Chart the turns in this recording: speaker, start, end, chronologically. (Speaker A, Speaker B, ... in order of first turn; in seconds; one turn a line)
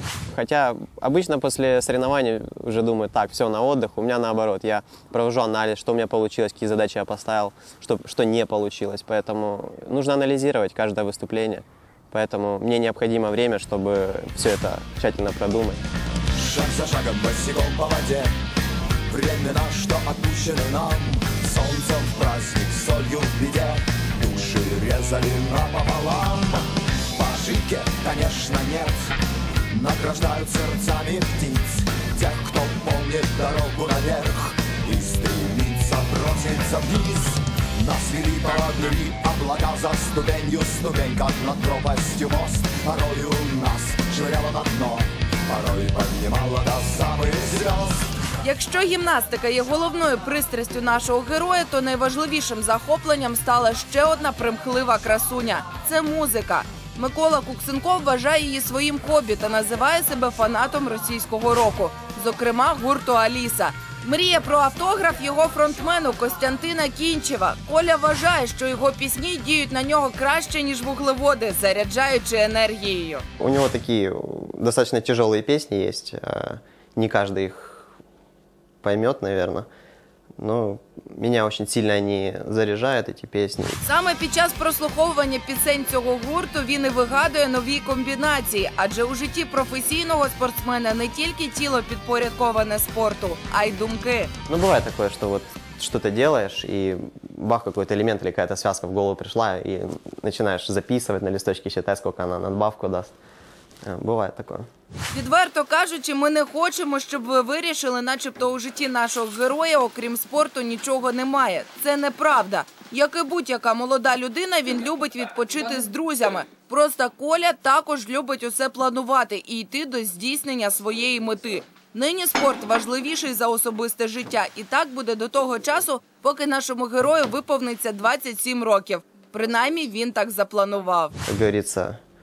Speaker A: 0.3-15.8
Speaker B: 16.4-18.3
Speaker B: 19.1-28.9
Speaker B: 29.7-48.1
Speaker C: 48.4-73.2
Speaker A: 73.4-77.9
Speaker A: 78.8-79.7
Speaker A: 80.4-83.8
Speaker C: 83.8-94.3
Speaker A: 94.5-103.1
Speaker A: 103.8-104.7
Speaker C: 105.1-131.1
Speaker A: 131.2-132.0